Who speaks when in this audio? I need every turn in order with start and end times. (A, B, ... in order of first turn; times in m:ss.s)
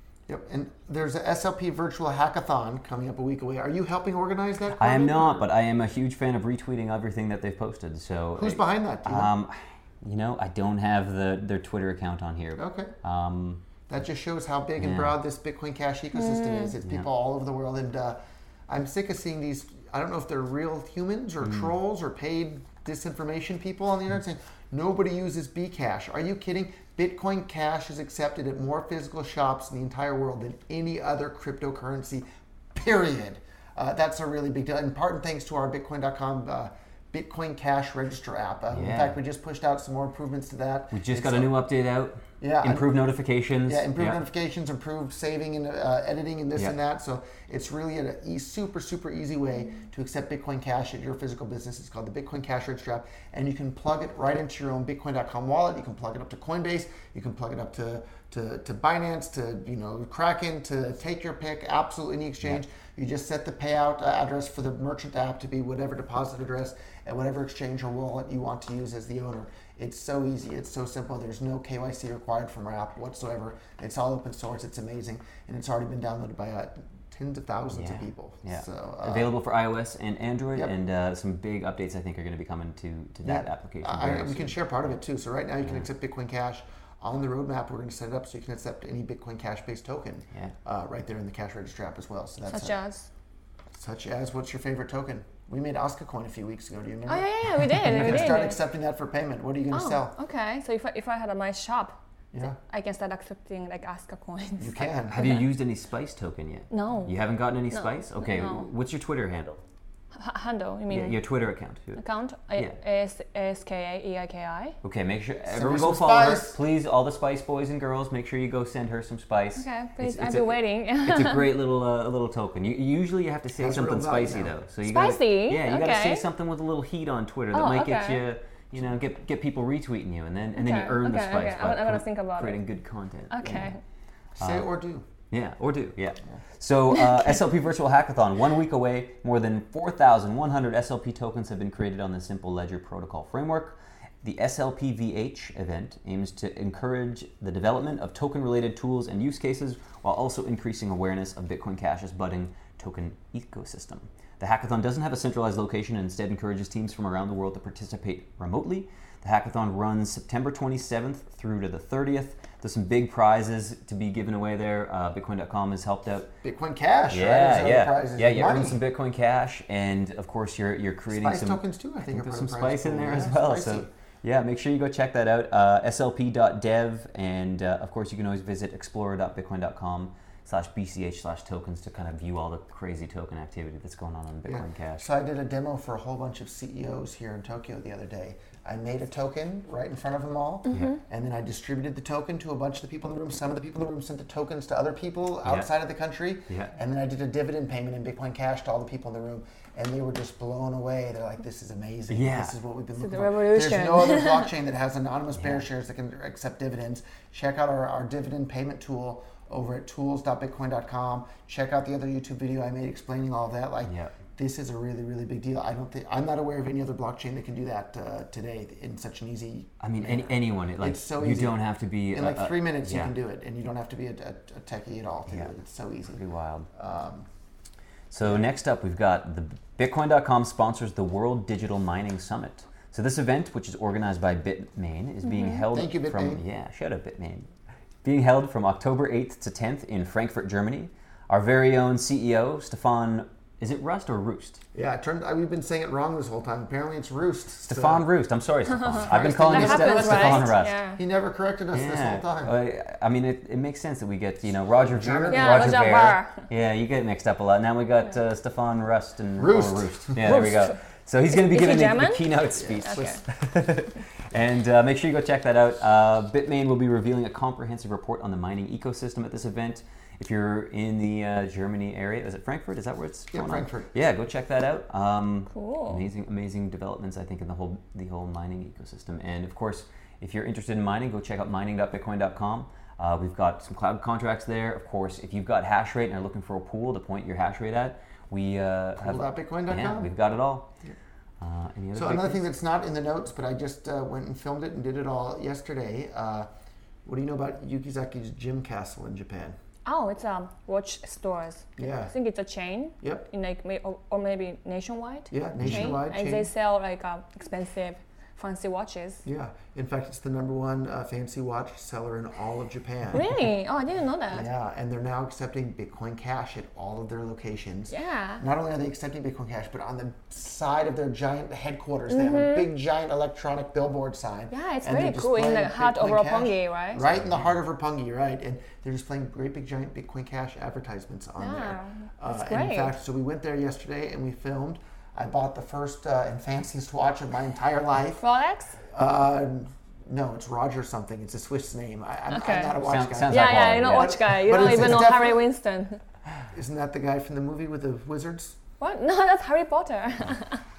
0:00.3-0:05.5 A
0:04.8-0:13.6 B
0:08.4-0:09.3 A
0:12.6-0:12.9 A
0:13.9-0:41.5 A
0:14.8-0:15.2 B
0:16.1-0:16.7 C
0:38.7-0:39.2 B
0:40.9-0:44.2 B
0:42.4-0:43.0 A
0:43.6-1:19.3 A
1:17.7-1:24.9 B
1:23.2-1:32.8 A
1:32.4-1:33.1 C
1:33.7-1:40.1 A
1:37.0-1:38.6 C
1:39.7-1:42.0 C
1:42.5-1:45.4 C
1:44.6-1:45.2 A
1:45.1-1:49.6 B
1:46.7-1:47.2 C
1:47.7-1:48.6 C
1:50.2-1:51.2 C
1:50.9-1:52.0 B
1:52.0-1:54.8 C
1:54.8-2:13.7 B
1:55.5-1:56.6 A
1:59.6-2:01.5 C
2:03.6-2:04.5 A
2:04.8-2:06.2 C
2:07.5-2:08.2 C
2:10.5-2:12.7 C
2:13.3-2:13.8 C
2:14.3-2:15.1 A
2:14.4-2:14.7 B
2:15.3-2:46.3 B
2:46.4-2:48.8 A
2:47.1-3:05.0 B
2:51.1-2:53.9 A
3:04.4-3:46.2 A
3:15.4-3:15.7 B
3:16.5-3:16.7 B
3:22.1-3:22.5 B
3:23.0-3:24.5 C
3:25.4-3:25.6 B
3:33.8-3:34.1 B
3:39.8-3:43.1 B
3:46.1-3:46.7 B
3:46.7-3:47.2 A
3:48.1-3:57.5 B
3:55.3-3:55.6 C
3:55.7-3:56.4 A
3:58.0-4:04.6 B
4:04.7-4:08.1 A
4:07.7-4:10.8 B
4:08.7-4:11.0 C
4:08.9-4:12.5 A
4:11.7-4:50.7 B
4:14.9-4:15.8 A
4:15.3-4:16.5 C
4:19.4-4:20.5 A
4:21.3-4:23.2 C
4:22.6-4:23.2 A
4:33.3-4:33.9 A
4:35.5-4:36.1 C
4:49.0-4:50.1 A
4:51.4-4:52.4 B
4:51.9-4:56.5 A
4:57.0-4:59.6 A
4:59.8-5:09.2 C
5:01.8-5:02.1 A
5:03.0-5:03.3 A
5:05.3-5:06.5 A
5:05.6-5:06.0 B
5:09.2-5:13.3 A
5:13.1-5:14.4 C
5:14.3-5:38.2 A
5:17.9-5:18.4 C
5:22.1-5:22.7 C
5:24.5-5:27.0 C
5:31.4-5:33.0 C
5:38.1-5:38.8 C
5:38.9-5:45.5 A
5:42.3-5:46.0 C
5:42.8-5:44.2 B
5:46.5-5:48.6 A
5:48.8-5:50.6 C